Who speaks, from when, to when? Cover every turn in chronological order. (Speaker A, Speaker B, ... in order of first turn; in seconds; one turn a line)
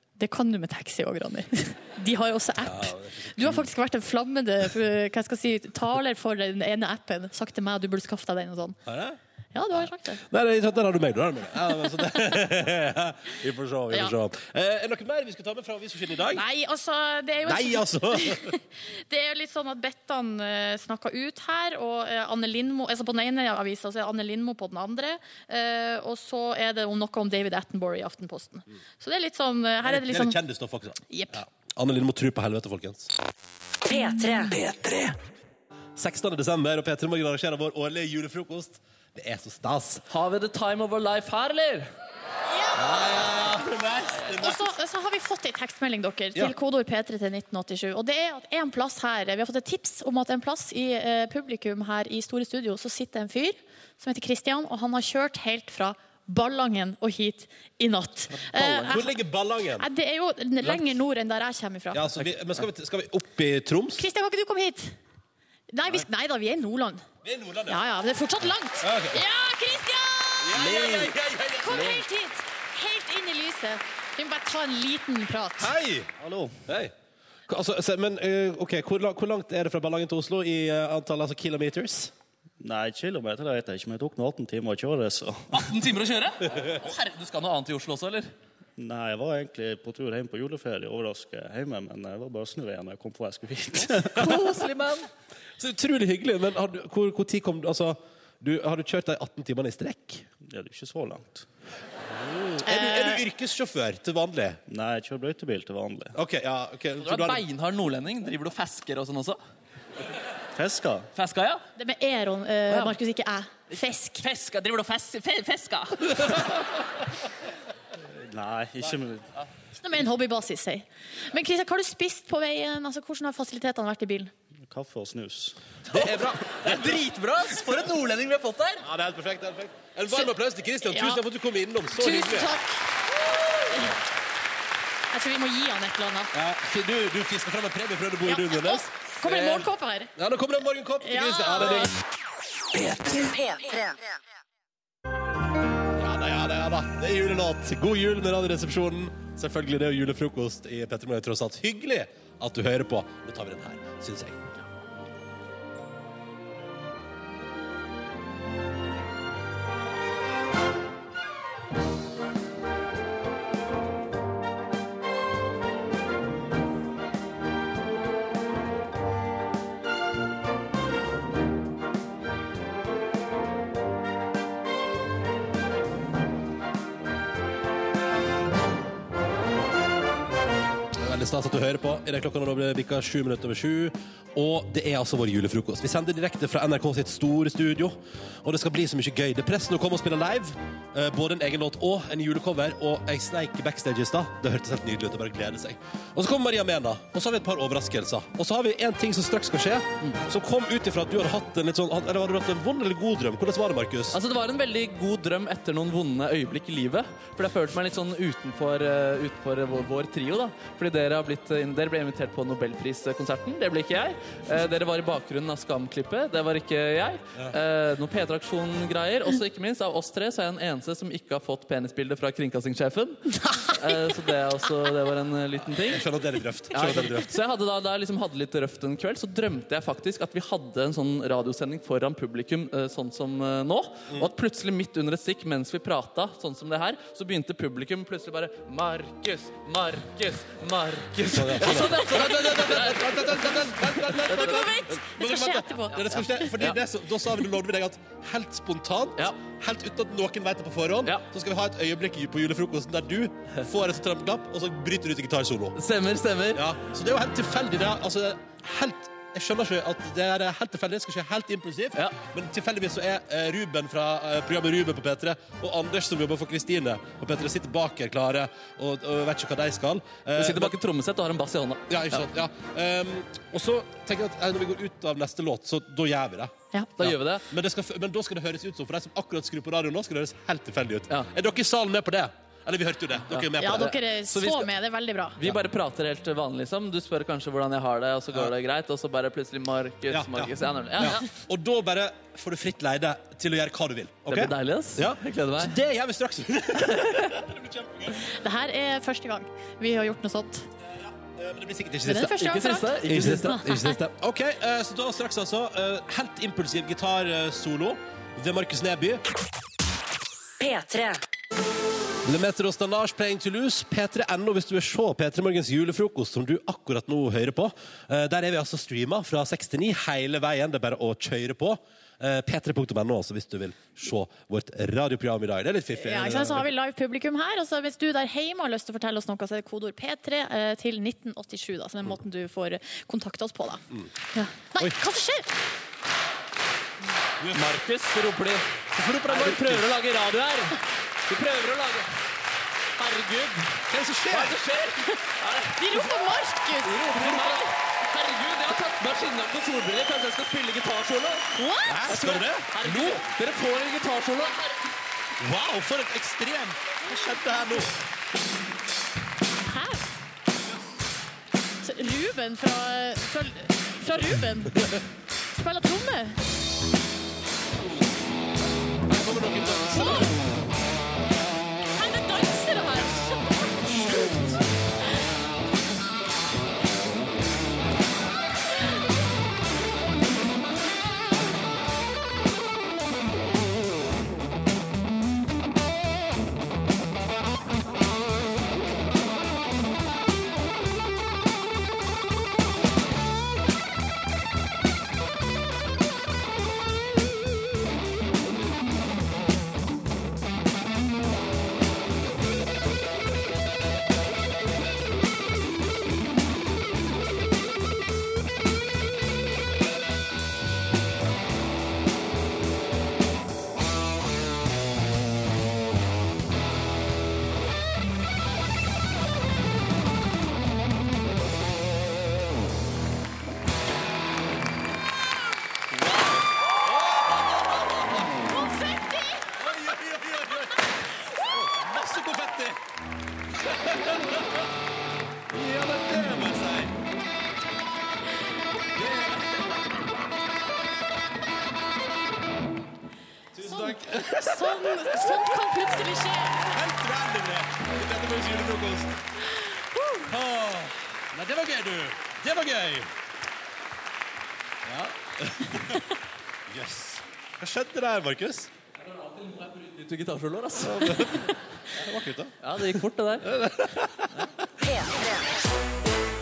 Speaker A: 0.2-8.8
Speaker B: 2.6-3.7
Speaker B: 8.8-9.2
Speaker A: 9.5-10.2
Speaker B: 10.2-16.4
Speaker A: 16.3-30.4
Speaker B: 17.4-18.5
Speaker B: 29.8-33.1
Speaker A: 31.1-31.4
Speaker C: 33.9-35.1
Speaker B: 36.0-40.0
Speaker D: 40.1-41.9
Speaker B: 42.7-44.6
Speaker A: 44.4-59.1
Speaker D: 58.3-59.0
Speaker B: 58.9-59.9
Speaker A: 59.8-62.1
Speaker B: 61.9-64.0
Speaker A: 64.0-64.9
Speaker A: 65.7-67.0
Speaker B: 67.2-67.8
Speaker A: 67.7-75.7
Speaker B: 68.8-69.2
Speaker B: 70.4-72.0
Speaker B: 75.6-76.1
Speaker E: 76.2-76.6
Speaker B: 76.7-76.9
Speaker B: 77.5-82.1
Speaker E: 82.6-85.5
Speaker D: 85.5-88.3
Speaker E: 88.8-94.3
Speaker D: 94.0-95.1
Speaker B: 95.6-100.2
Speaker E: 100.5-101.5
Speaker B: 102.1-104.6
Speaker A: 102.6-103.2
Speaker E: 104.7-106.1
Speaker B: 106.1-107.4
Speaker D: 107.0-109.4
Speaker E: 110.5-111.1
Speaker D: 111.1-111.6
Speaker A: 111.8-114.2
Speaker D: 112.7-112.9
Speaker D: 113.8-116.5
Speaker E: 118.2-119.2
Speaker A: 119.8-124.3
Speaker E: 124.7-125.5
Speaker D: 125.9-128.8
Speaker B: 125.9-127.0
Speaker B: 128.8-132.5
Speaker A: 130.8-131.2
Speaker A: 131.9-132.8
Speaker A: 133.6-133.9
Speaker A: 135.1-136.3
Speaker B: 136.3-141.9
Speaker A: 138.2-140.1
Speaker A: 141.0-141.9
Speaker C: 142.7-144.0
Speaker B: 145.9-154.4
Speaker B: 180.9-204.2
Speaker D: 204.1-226.0
Speaker A: 223.4-223.7
Speaker B: 225.8-227.3
Speaker D: 226.7-244.7
Speaker B: 241.2-255.8
Speaker A: 244.3-246.5
Speaker D: 246.0-246.8
Speaker D: 255.8-256.6
Speaker B: 256.5-270.7
Speaker D: 270.4-272.2
Speaker B: 271.9-283.9
Speaker D: 277.0-277.4
Speaker D: 283.3-284.7
Speaker A: 283.6-285.4
Speaker D: 285.4-291.2
Speaker B: 290.1-298.3
Speaker D: 294.3-295.7
Speaker A: 298.2-300.7
Speaker B: 301.0-302.4
Speaker A: 302.0-303.9
Speaker D: 302.3-303.6
Speaker B: 303.1-309.2
Speaker C: 310.6-311.2
Speaker B: 312.2-326.7
Speaker A: 325.9-335.5
Speaker B: 337.4-337.7
Speaker D: 337.5-338.6
Speaker B: 338.9-339.9
Speaker D: 339.3-342.1
Speaker D: 343.0-346.1
Speaker B: 343.9-344.6
Speaker A: 345.8-347.7
Speaker D: 346.8-351.5
Speaker A: 351.5-352.0
Speaker B: 351.9-353.3
Speaker D: 352.1-354.8
Speaker B: 355.4-357.9
Speaker A: 359.7-360.0
Speaker A: 361.8-364.8
Speaker A: 365.5-366.4
Speaker B: 369.1-370.4
Speaker A: 369.9-370.3
Speaker A: 371.9-374.4
Speaker B: 426.8-428.3
Speaker A: 428.5-429.5
Speaker B: 429.6-432.8
Speaker B: 433.6-434.6
Speaker B: 435.5-436.9
Speaker B: 439.0-439.4
Speaker B: 443.5-445.4
Speaker A: 443.7-446.7
Speaker B: 446.7-449.2
Speaker A: 449.8-450.3
Speaker B: 450.3-453.1
Speaker B: 454.8-456.0
Speaker B: 456.7-458.7
Speaker D: 459.0-461.6
Speaker B: 460.8-464.3
Speaker D: 462.6-463.5
Speaker C: 464.8-465.4